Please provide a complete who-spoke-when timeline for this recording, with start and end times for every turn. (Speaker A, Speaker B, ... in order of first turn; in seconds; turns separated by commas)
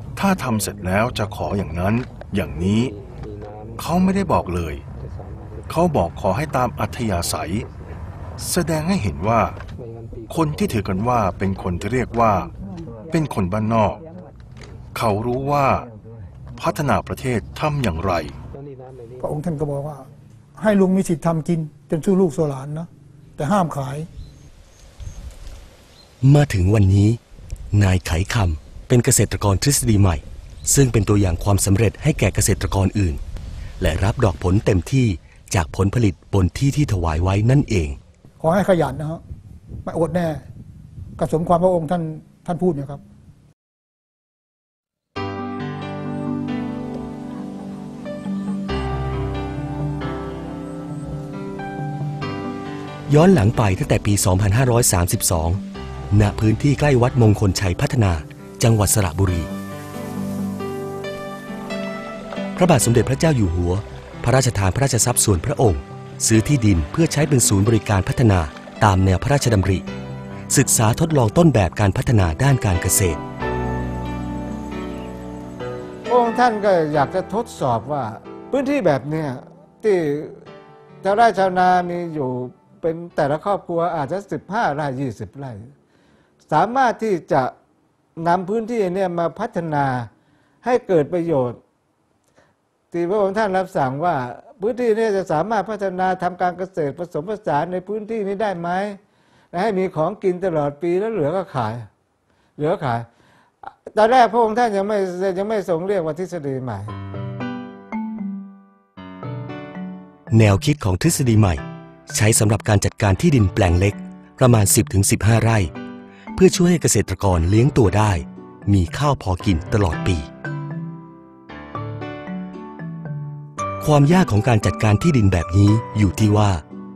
Speaker A: 0.2-2.9, Speaker A: 3.8-4.8, Speaker A: 5.7-7.7, Speaker A: 8.4-9.6, Speaker A: 10.3-12.5, Speaker A: 13.1-14.0, Speaker A: 14.9-15.9, Speaker A: 16.6-18.4, Speaker B: 19.2-20.1, Speaker B: 20.6-24.1, Speaker C: 26.2-27.2, Speaker C: 27.7-33.2, Speaker C: 33.8-38.0, Speaker B: 38.4-39.2, Speaker B: 39.9-40.4, Speaker B: 41.2-43.0, Speaker C: 53.1-55.6, Speaker C: 56.1-59.5, Speaker C: 62.6-69.8, Speaker C: 70.5-73.2, Speaker D: 76.1-80.4, Speaker D: 81.0-85.7, Speaker D: 86.5-87.5, Speaker D: 88.2-90.1, Speaker D: 90.6-91.6, Speaker D: 92.9-99.0, Speaker D: 99.5-101.9, Speaker D: 102.6-103.1, Speaker D: 103.9-106.9, Speaker C: 110.3-115.7, Speaker C: 116.4-120.3, Speaker C: 123.8-126.6